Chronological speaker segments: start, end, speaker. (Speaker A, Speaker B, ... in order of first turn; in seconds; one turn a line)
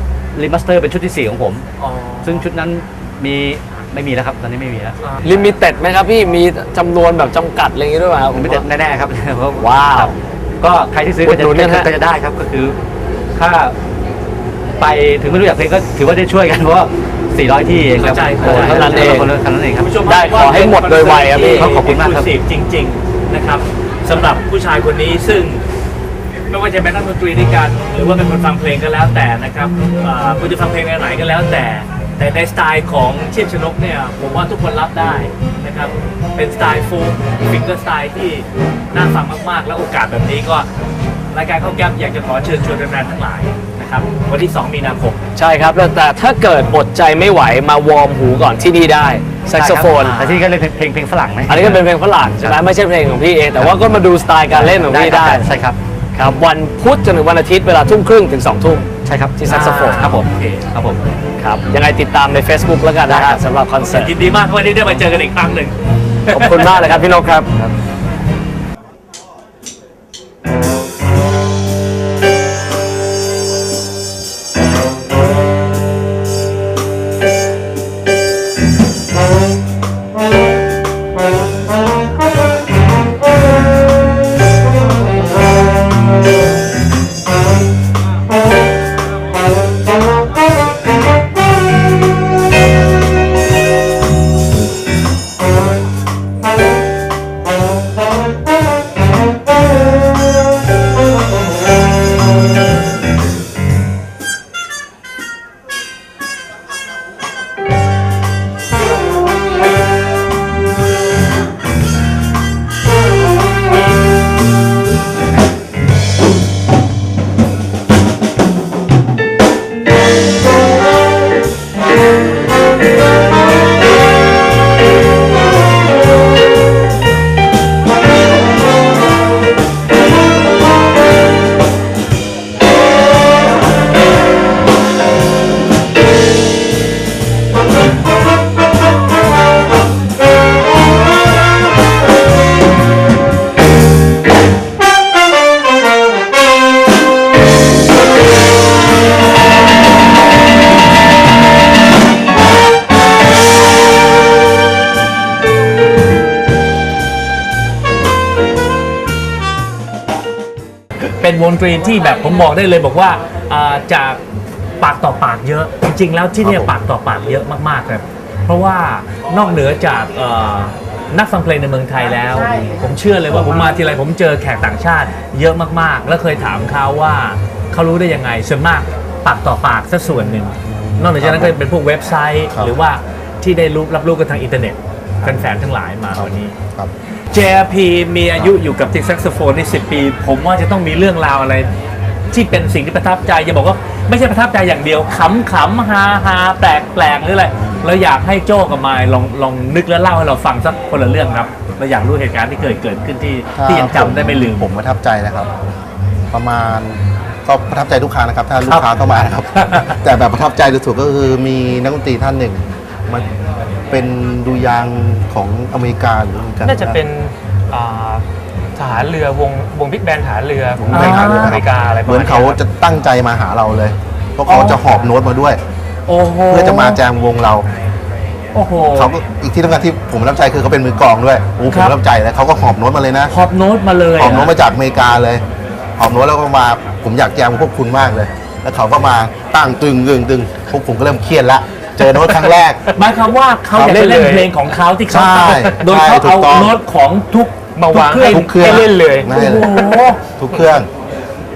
Speaker A: 0.3-1.6
Speaker B: 1.8-2.4
Speaker A: 2.2-5.0
Speaker B: 5.0-5.5
Speaker C: 5.2-8.6
Speaker A: 8.3-12.8
Speaker C: 9.6-10.1
Speaker C: 11.2-11.9
Speaker A: 13.3-13.7
Speaker A: 14.8-19.9
Speaker B: 18.0-19.2
Speaker C: 18.4-19.3
Speaker B: 19.8-25.6
Speaker C: 20.1-21.8
Speaker A: 21.6-22.3
Speaker B: 26.5-40.7
Speaker B: 41.3-45.2
Speaker C: 45.4-50.2
Speaker A: 49.5-51.8
Speaker B: 49.9-50.4
Speaker C: 51.5-55.5
Speaker A: 54.5-55.8
Speaker C: 56.1-60.1
Speaker A: 59.0-61.0
Speaker B: 59.5-60.7
Speaker C: 61.4-64.1
Speaker A: 63.1-63.4
Speaker B: 63.8-65.7
Speaker C: 66.3-67.7
Speaker B: 66.3-66.8
Speaker B: 161.2-164.2
Speaker B: 164.8-186.5
Speaker D: 166.4-166.7
Speaker D: 180.6-181.6
Speaker D: 186.1-186.9
Speaker B: 187.3-191.7
Speaker B: 192.3-204.7
Speaker D: 203.5-205.5
Speaker D: 206.3-213.2
Speaker A: 208.6-209.4
Speaker B: 209.4-210.0
Speaker D: 213.9-217.0
Speaker E: 216.6-218.2
Speaker E: 218.8-222.6
Speaker D: 220.8-225.6
Speaker B: 220.9-221.6
Speaker B: 224.5-225.1
Speaker B: 226.1-227.0
Speaker D: 226.5-227.7
Speaker B: 228.5-229.2
Speaker D: 228.9-233.3
Speaker B: 231.7-231.9
Speaker B: 233.3-234.5
Speaker D: 234.1-235.4
Speaker D: 236.0-242.8
Speaker B: 242.9-250.2
Speaker D: 243.7-244.1
Speaker E: 243.8-244.5
Speaker D: 245.1-246.8
Speaker E: 247.8-250.0
Speaker D: 247.9-249.7
Speaker D: 250.4-250.9